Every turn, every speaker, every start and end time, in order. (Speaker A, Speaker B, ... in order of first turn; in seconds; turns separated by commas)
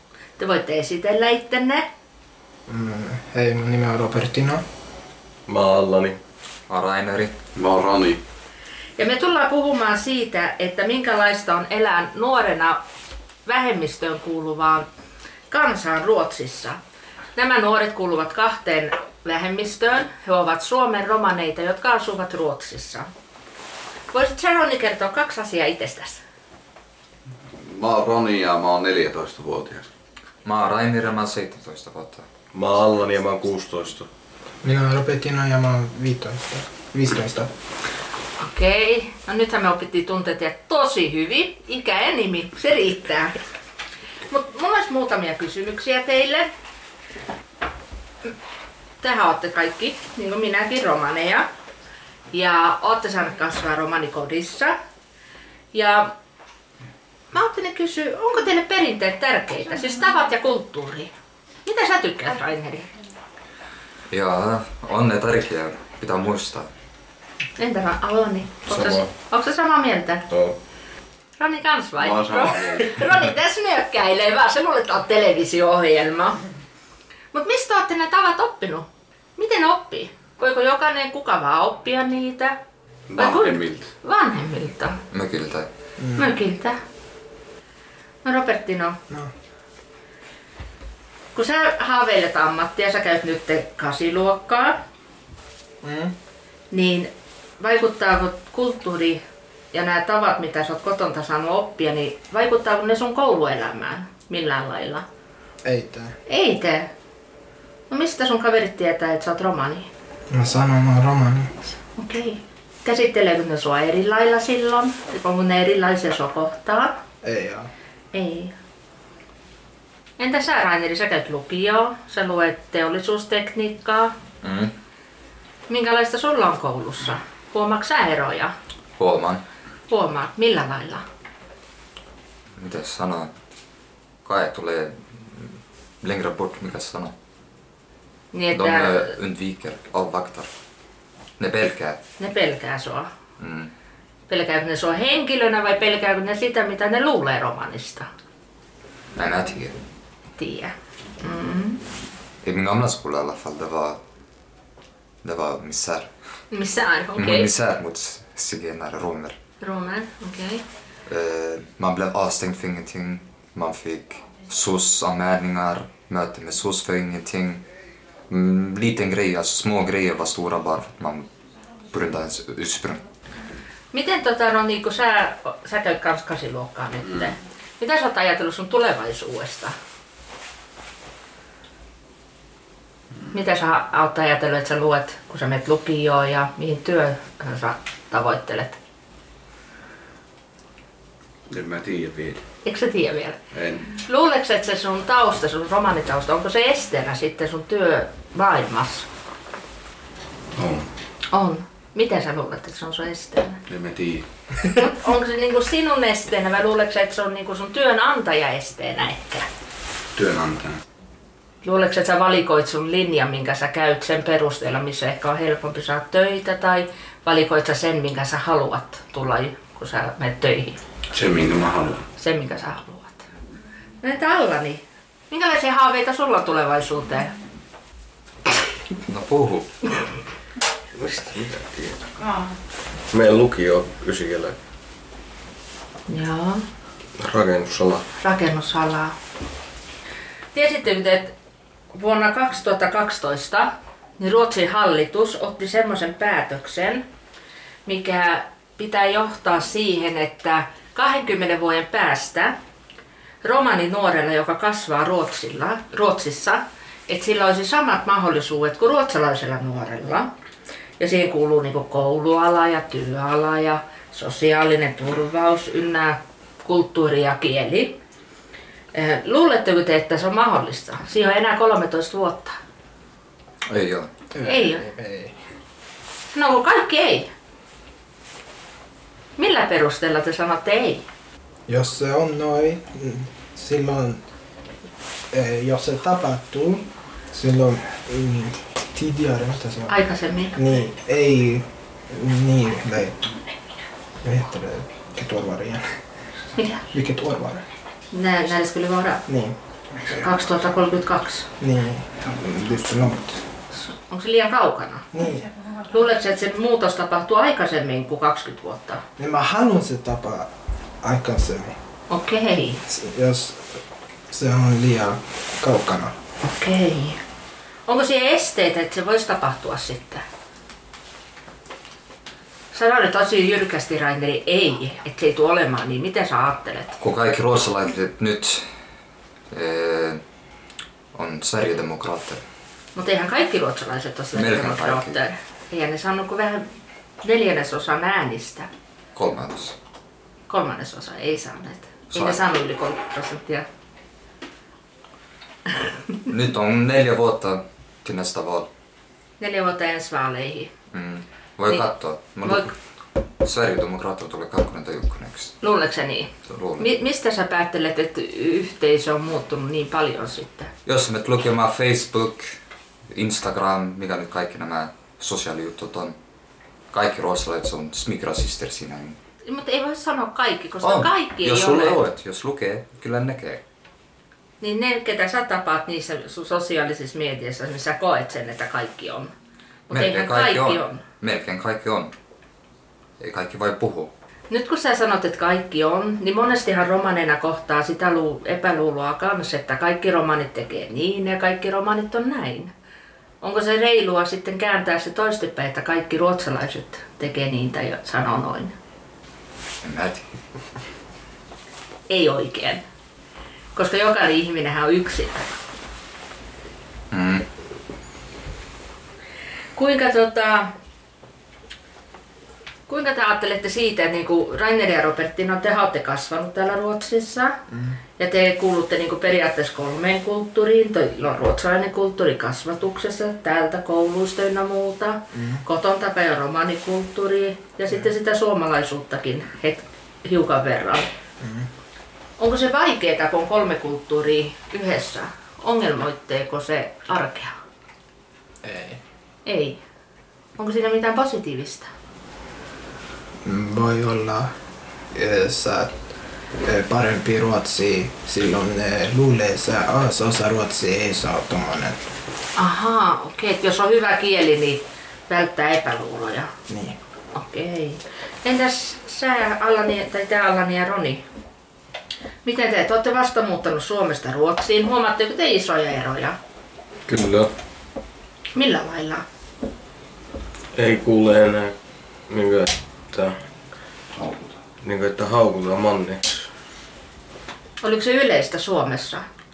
Speaker A: 0.4-1.9, Speaker B: 2.7-4.6, Speaker C: 5.5-6.2, Speaker D: 6.7-7.4, Speaker E: 7.5-8.2, Speaker A: 9.0-12.8, Speaker A: 13.4-14.9, Speaker A: 15.5-16.8, Speaker A: 17.3-23.1, Speaker A: 24.1-26.2, Speaker E: 27.6-29.9, Speaker D: 30.4-32.2, Speaker C: 32.5-34.1, Speaker B: 34.6-37.5, Speaker A: 38.4-43.4, Speaker A: 44.3-46.5, Speaker A: 49.0-51.5, Speaker A: 52.3-54.8, Speaker A: 55.7-56.1, Speaker A: 57.3-61.1, Speaker A: 61.6-62.9, Speaker D: 64.1-66.7, Speaker A: 67.6-70.2, Speaker A: 71.4-76.4, Speaker E: 72.0-73.0, Speaker A: 77.3-78.8, Speaker A: 79.4-82.5, Speaker E: 83.1-83.9, Speaker A: 83.2-85.0, Speaker D: 85.1-85.7, Speaker B: 86.0-86.3, Speaker A: 86.2-86.8, Speaker A: 88.2-89.0, Speaker A: 91.3-94.8, Speaker B: 95.8-96.1, Speaker A: 96.7-99.2, Speaker A: 99.7-105.0, Speaker B: 105.6-106.2, Speaker A: 106.3-106.9, Speaker A: 107.9-109.9, Speaker B: 110.3-111.5, Speaker A: 112.0-117.0, Speaker B: 117.2-117.7, Speaker A: 118.1-118.5, Speaker A: 120.2-124.1, Speaker D: 124.4-124.7, Speaker A: 125.7-128.5, Speaker D: 129.0-129.4, Speaker A: 129.9-131.0, Speaker D: 132.6-133.3, Speaker D: 134.2-137.1, Speaker A: 138.3-139.1, Speaker D: 138.5-140.5, Speaker D: 141.4-142.0, Speaker A: 142.2-143.1, Speaker D: 143.4-143.7, Speaker A: 144.3-148.1, Speaker D: 149.2-149.8, Speaker A: 150.4-151.8, Speaker D: 152.4-154.0, Speaker D: 155.2-156.1, Speaker A: 156.5-157.5, Speaker D: 157.2-159.3, Speaker A: 159.6-160.6, Speaker D: 161.1-167.6, Speaker D: 168.3-171.3, Speaker D: 171.9-173.0, Speaker A: 173.9-179.7, Speaker A: 183.3-188.8, Speaker E: 191.5-192.4, Speaker A: 192.6-199.1, Speaker E: 193.5-193.9, Speaker E: 200.6-200.9, Speaker A: 201.3-203.6, Speaker E: 203.7-204.3, Speaker A: 204.7-209.5, Speaker E: 210.2-210.8, Speaker A: 211.6-220.8, Speaker E: 221.1-222.0, Speaker A: 222.2-223.3, Speaker A: 224.0-227.3, Speaker D: 229.1-229.7, Speaker C: 230.9-232.1, Speaker C: 233.1-234.6, Speaker A: 236.1-236.6, Speaker C: 237.2-238.0, Speaker A: 238.2-239.1, Speaker A: 240.5-241.3, Speaker A: 241.9-247.0, Speaker A: 247.8-252.6, Speaker A: 253.4-260.3, Speaker A: 261.0-268.0, Speaker A: 268.9-272.6, Speaker D: 273.7-274.1, Speaker B: 274.3-275.4, Speaker A: 274.4-274.9, Speaker A: 276.3-277.3, Speaker A: 279.4-281.0, Speaker B: 281.7-284.2, Speaker B: 285.3-290.0, Speaker A: 289.9-290.6, Speaker B: 290.5-293.3, Speaker B: 294.2-295.8, Speaker A: 296.6-296.8, Speaker B: 296.9-297.6, Speaker A: 298.1-299.2, Speaker B: 299.3-299.6, Speaker A: 300.1-301.5, Speaker B: 301.6-303.4, Speaker A: 303.8-305.1, Speaker B: 305.1-305.5, Speaker A: 305.9-309.0, Speaker B: 309.2-310.5, Speaker B: 311.0-311.8, Speaker A: 312.1-312.8, Speaker B: 312.9-313.7, Speaker B: 314.3-316.1, Speaker A: 316.4-317.2, Speaker A: 317.9-320.2, Speaker A: 322.7-327.0, Speaker D: 327.0-328.6, Speaker D: 329.5-330.2, Speaker D: 331.1-332.4, Speaker A: 332.9-336.6, Speaker D: 334.3-335.1, Speaker A: 337.2-338.7, Speaker D: 339.1-339.7, Speaker A: 340.5-343.6, Speaker D: 342.1-342.4, Speaker D: 346.2-348.7, Speaker A: 349.4-350.7, Speaker D: 350.9-352.7, Speaker D: 353.4-355.6, Speaker A: 355.6-360.7, Speaker D: 356.4-356.9, Speaker D: 360.8-362.6, Speaker D: 363.1-366.1, Speaker D: 366.9-369.2, Speaker A: 369.4-372.0, Speaker D: 370.8-373.6, Speaker A: 374.6-379.3, Speaker A: 379.9-381.0, Speaker D: 379.9-382.1, Speaker D: 383.2-384.1, Speaker A: 384.5-392.7, Speaker A: 393.4-398.7, Speaker D: 399.8-400.3, Speaker A: 402.1-402.8, Speaker A: 403.7-405.5, Speaker D: 407.1-407.4, Speaker A: 409.8-410.7, Speaker A: 412.9-417.6, Speaker A: 418.2-431.1, Speaker B: 425.3-425.6, Speaker B: 431.4-431.7, Speaker A: 432.4-437.5, Speaker B: 438.6-439.0, Speaker A: 439.4-439.8, Speaker A: 440.6-441.9, Speaker B: 443.4-444.5, Speaker B: 445.1-446.0, Speaker B: 446.6-452.0, Speaker A: 452.6-456.5, Speaker B: 456.7-457.0, Speaker A: 457.3-461.2, Speaker A: 462.4-466.4, Speaker C: 467.1-467.5, Speaker A: 468.5-469.2, Speaker C: 470.7-471.7, Speaker C: 472.3-473.4, Speaker C: 474.8-476.5, Speaker A: 477.8-479.2